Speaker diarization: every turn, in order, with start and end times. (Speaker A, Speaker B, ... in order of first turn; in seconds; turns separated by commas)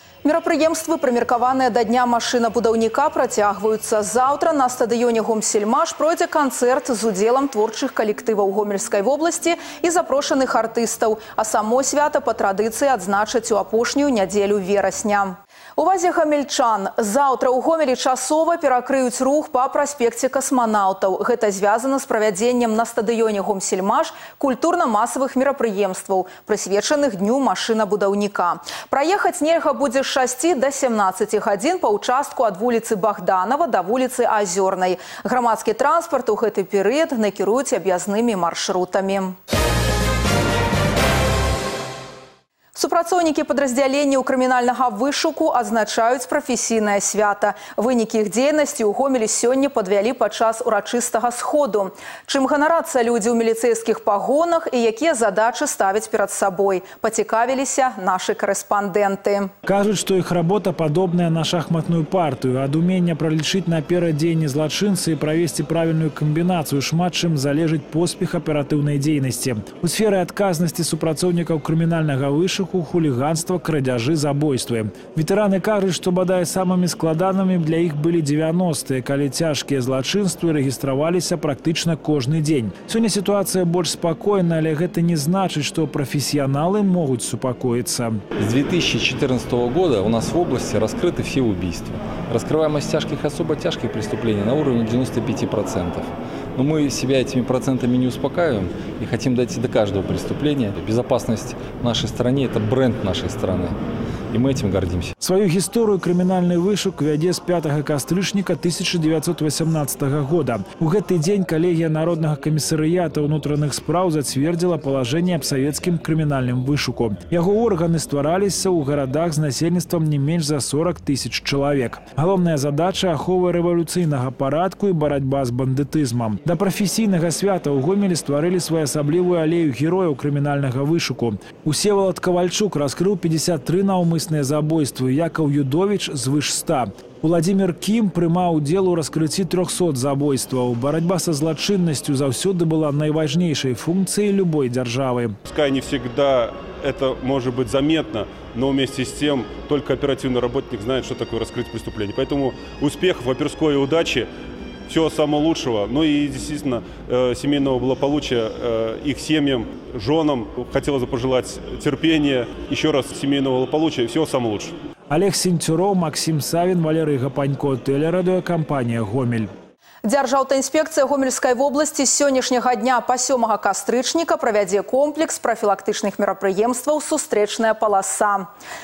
Speaker A: 0.2-39.3, Speaker A: 42.7-59.5, Speaker B: 59.6-88.2, Speaker C: 88.4-103.8, Speaker C: 104.3-105.1, Speaker B: 105.2-145.4, Speaker D: 145.4-154.3, Speaker D: 154.9-164.7, Speaker B: 165.1-169.5, Speaker A: 170.0-178.5